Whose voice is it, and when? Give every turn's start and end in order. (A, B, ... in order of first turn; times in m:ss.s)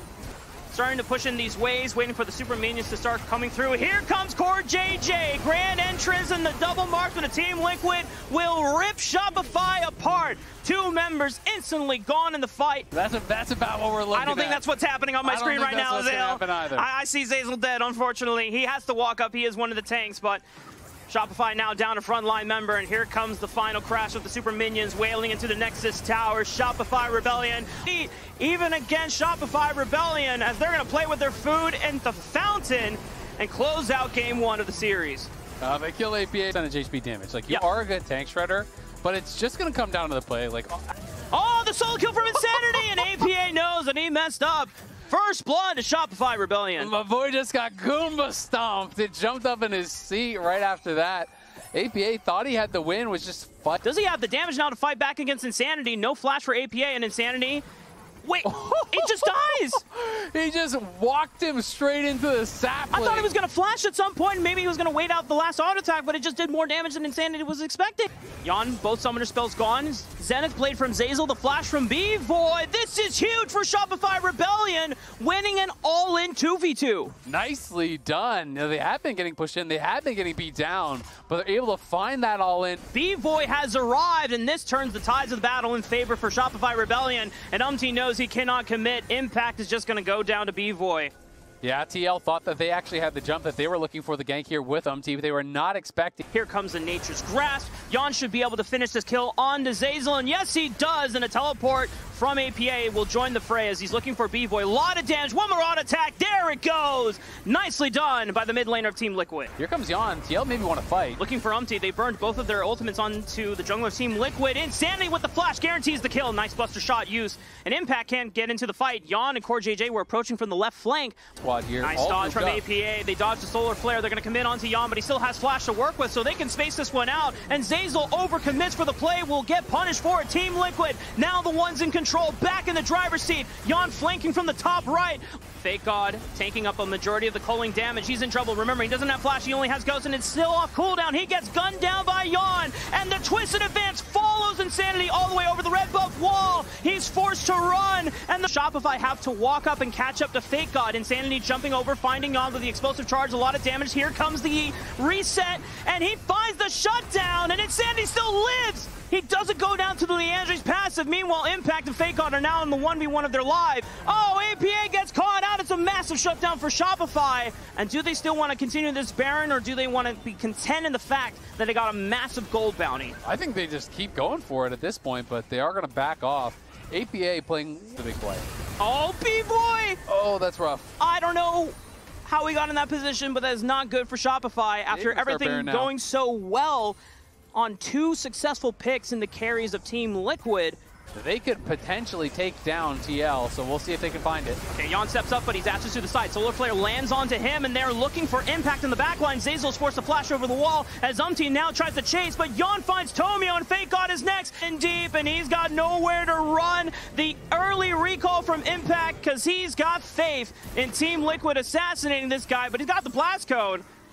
0:00.7-0:12.9 A
0:12.9-0:14.6 B
0:14.1-0:20.4 A
0:15.2-0:16.8 B
0:21.1-0:35.3 A
0:35.6-0:40.8 B
0:41.3-0:46.9 A
0:46.8-0:53.8 B
0:53.8-0:57.6 A
0:58.2-0:59.8 A
0:58.4-1:03.3 B
1:02.9-1:17.1 A
1:17.2-1:22.8 B
1:22.9-1:31.1 A
1:31.6-1:36.2 B
1:36.3-1:49.5 A
1:49.6-1:51.2 B
1:51.2-2:01.2 A
2:01.4-2:02.6 B
2:01.8-2:53.2 A
2:53.2-2:58.5 B
2:58.8-3:00.0 A
3:00.1-3:00.9 B
3:01.0-3:07.0 A
3:04.9-3:05.9 B
3:07.5-3:10.8 A
3:11.1-3:14.6 B
3:14.7-3:33.8 A